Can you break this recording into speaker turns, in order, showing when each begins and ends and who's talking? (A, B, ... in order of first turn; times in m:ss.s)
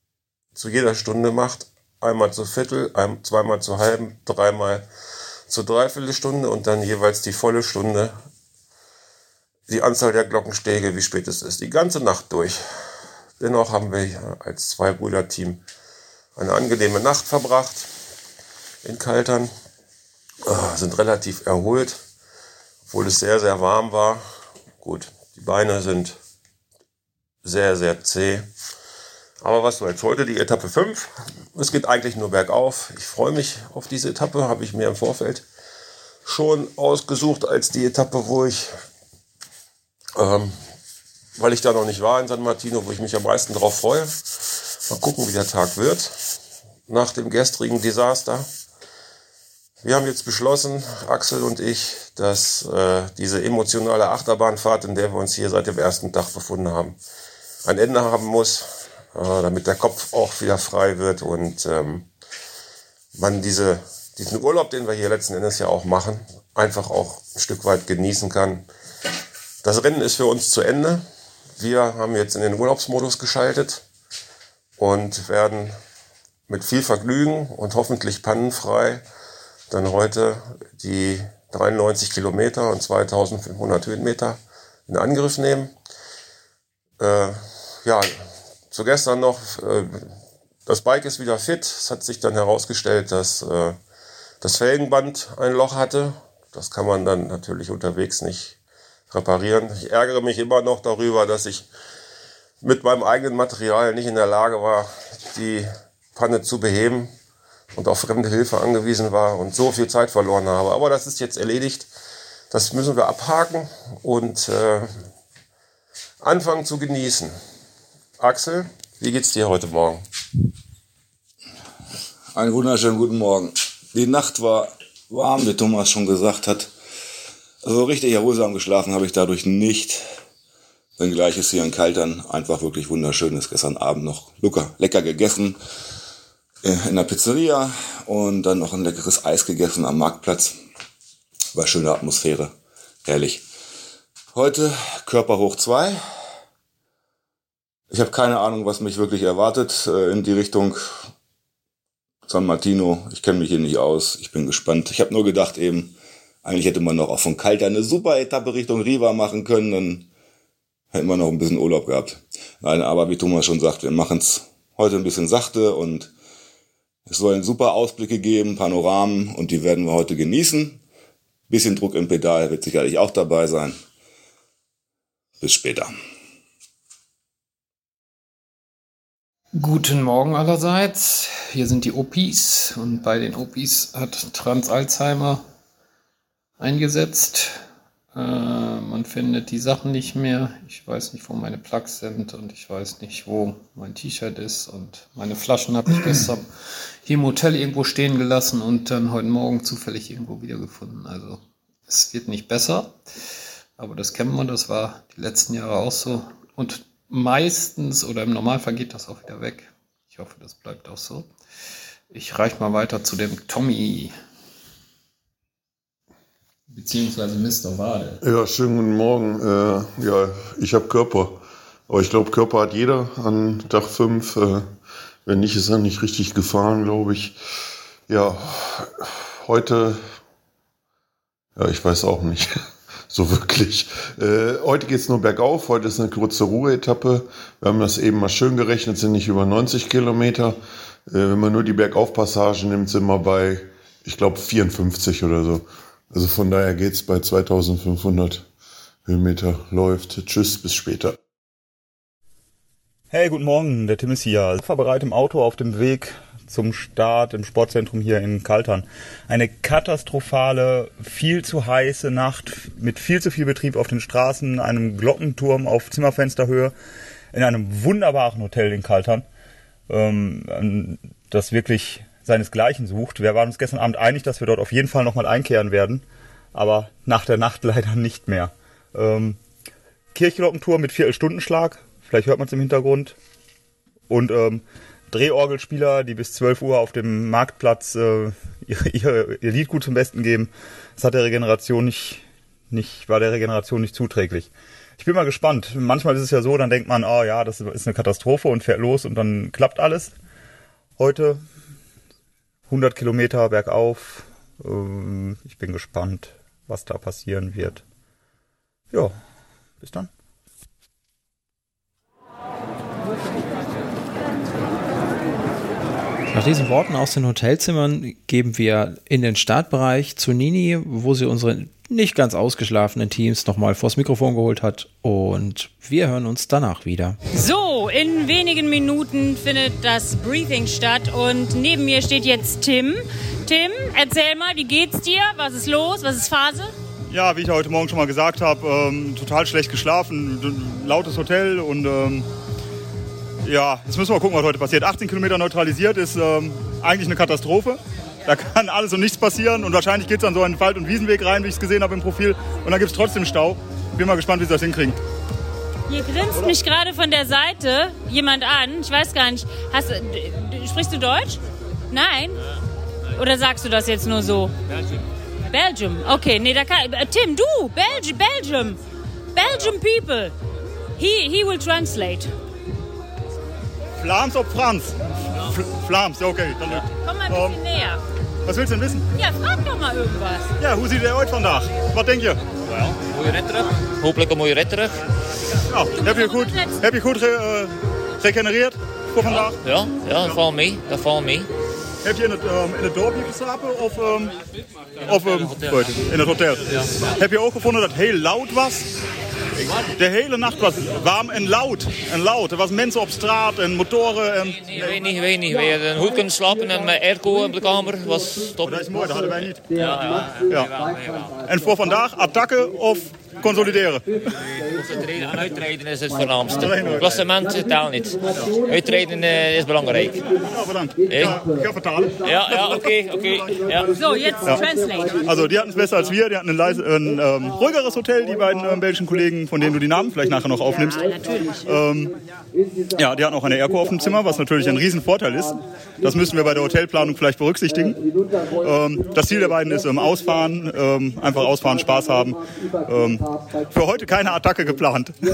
0:00.6-0:04.8 A
0:05.5-0:08.1 A
0:09.7-0:12.6 A
0:13.4-0:15.6 A
0:16.4-0:17.9 A
0:18.8-0:19.5 A
0:20.4-0:22.0 A
0:22.9-0:24.2 A
0:24.8-0:26.2 A
0:27.4-0:28.5 A
0:29.4-0:35.4 A
0:36.2-0:38.8 A
0:40.2-0:40.6 A
0:41.4-0:46.2 A
0:46.9-0:48.4 A
0:49.8-0:57.0 A
0:57.6-1:02.1 A
1:03.2-1:08.7 A
1:09.6-1:11.0 A
1:11.6-1:13.8 A
1:14.8-1:15.8 A
1:16.5-1:19.0 A
1:19.7-1:25.7 A
1:27.0-1:30.1 A
1:30.6-1:33.8 A
1:34.4-1:38.6 A
1:39.1-1:41.7 A
1:42.6-1:47.1 A
1:47.7-1:51.9 A
1:52.5-1:55.0 A
1:56.2-1:57.4 A
1:58.2-2:00.0 A
2:02.3-2:06.7 B
2:07.6-2:10.0 B
2:11.0-2:15.6 B
2:16.6-2:20.6 B
2:21.5-2:22.5 B
2:23.0-2:23.4 B
2:24.3-2:26.0 B
2:27.9-2:31.0 B
2:32.2-2:40.1 B
2:40.9-2:46.1 B
2:47.1-2:50.8 B
2:51.5-2:53.8 B
2:55.4-2:55.9 B
2:59.5-3:05.4 C
3:06.6-3:16.5 C
3:17.0-3:23.0 C
3:23.8-3:31.3 C
3:32.1-3:34.1 C
3:36.7-3:38.2 C
3:38.2-3:44.6 D
3:45.2-3:47.3 D
3:48.1-3:50.0 D
3:51.6-3:52.5 D
3:53.1-4:00.6 D
4:01.1-4:08.4 D
4:09.0-4:11.2 D
4:13.1-4:26.7 E
4:27.3-4:29.2 E
4:29.9-4:39.4 E
4:40.1-4:43.2 E
4:44.1-5:00.1 E
5:01.0-5:01.4 E
5:02.7-5:07.8 E
5:09.8-5:10.1 E
5:16.3-5:27.2 F
5:27.3-5:36.7 G
5:37.1-5:42.3 E
5:43.4-5:55.0 E
5:55.9-6:01.4 G
6:01.9-6:02.4 G
6:03.2-6:04.5 G
6:05.5-6:08.8 G
6:09.3-6:10.3 G
6:11.0-6:12.3 G
6:14.0-6:17.6 E
6:17.0-6:18.0 G
6:18.4-6:19.0 E
6:19.1-6:20.6 G
6:20.6-6:22.4 E
6:22.7-6:25.0 H
6:25.7-6:29.6 E
6:26.0-6:26.8 G
6:29.6-6:31.5 H
6:32.0-6:34.3 E
6:35.0-6:38.9 E
6:39.6-6:45.1 E
6:44.8-6:48.9 H
6:48.6-6:49.8 E
6:49.8-6:51.3 H
6:51.4-6:54.0 E
6:54.6-7:00.2 H
6:56.6-6:57.2 E
7:00.5-7:02.9 E
7:01.1-7:01.4 H
7:02.2-7:03.9 H
7:03.9-7:05.3 G
7:05.2-7:12.1 E
7:10.7-7:11.6 G
7:13.0-7:18.0 E
7:18.6-7:25.2 E